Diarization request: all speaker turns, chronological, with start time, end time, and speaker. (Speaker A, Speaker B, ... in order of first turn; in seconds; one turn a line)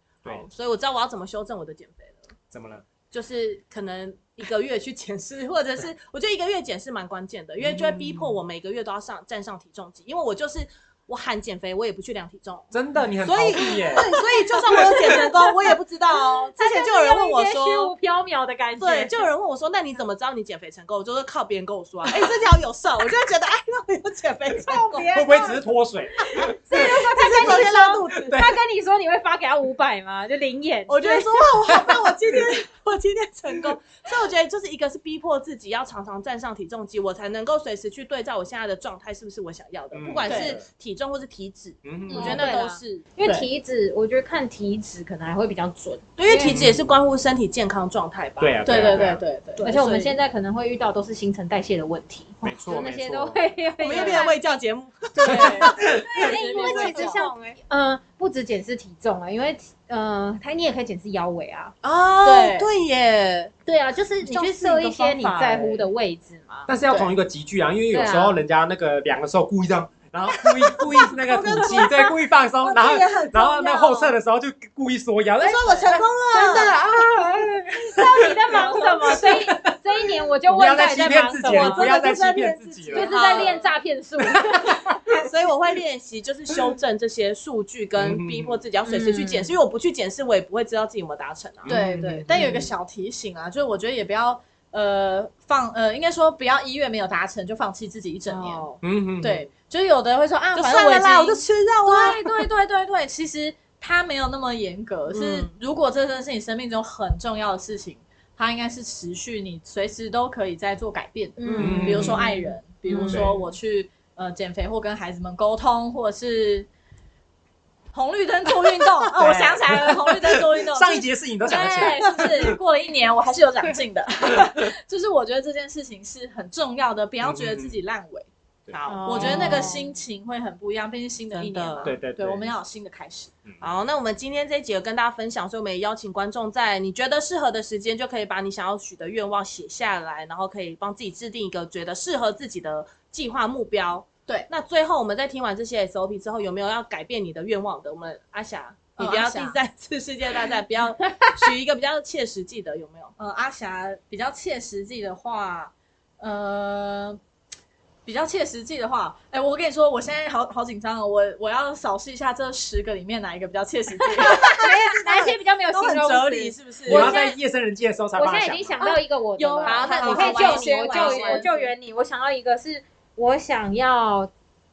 Speaker A: 0.2-2.3
Speaker B: 2.5-2.8
Speaker A: 3.1-17.9
Speaker B: 7.6-8.4
Speaker B: 12.7-14.1
Speaker C: 16.6-19.3
Speaker A: 18.8-25.6
Speaker B: 25.1-26.5
Speaker C: 26.4-31.3
Speaker A: 26.4-28.4
Speaker A: 30.9-43.0
Speaker B: 31.9-32.4
Speaker B: 39.9-40.7
Speaker D: 40.2-40.6
Speaker B: 41.8-42.4
Speaker D: 42.1-42.5
Speaker C: 42.3-46.6
Speaker A: 46.2-49.8
Speaker B: 46.4-46.9
Speaker B: 48.4-49.2
Speaker D: 48.6-50.1
Speaker C: 49.6-54.4
Speaker B: 52.4-53.4
Speaker A: 53.8-57.6
Speaker C: 55.1-61.7
Speaker D: 55.2-57.2
Speaker A: 61.8-63.5
Speaker D: 62.2-62.7
Speaker C: 63.6-66.7
Speaker D: 64.2-65.5
Speaker B: 66.7-79.7
Speaker C: 67.9-68.4
Speaker A: 71.0-74.1
Speaker A: 75.4-76.8
Speaker C: 77.9-81.9
Speaker A: 78.5-78.9
Speaker B: 80.5-83.2
Speaker A: 80.9-83.7
Speaker C: 82.9-84.8
Speaker B: 84.5-85.0
Speaker A: 85.1-91.8
Speaker B: 88.0-88.6
Speaker C: 88.8-89.5
Speaker B: 91.6-92.6
Speaker D: 91.7-98.7
Speaker A: 98.3-98.8
Speaker B: 98.8-99.5
Speaker D: 99.2-116.7
Speaker A: 100.5-102.4
Speaker A: 105.1-105.5
Speaker C: 111.4-113.3
Speaker A: 111.5-112.2
Speaker B: 111.6-112.2
Speaker D: 117.9-128.3
Speaker B: 119.2-122.6
Speaker B: 127.2-127.8
Speaker B: 128.7-129.6
Speaker A: 128.7-129.6
Speaker C: 128.8-130.0
Speaker D: 129.1-133.3
Speaker A: 131.3-131.9
Speaker B: 131.8-132.5
Speaker A: 133.6-153.1
Speaker D: 149.0-149.6
Speaker D: 153.2-157.2
Speaker D: 158.1-164.6
Speaker C: 164.0-167.4
Speaker A: 164.2-167.2
Speaker B: 166.8-168.8
Speaker C: 168.1-174.3
Speaker D: 168.8-171.7
Speaker A: 169.6-171.5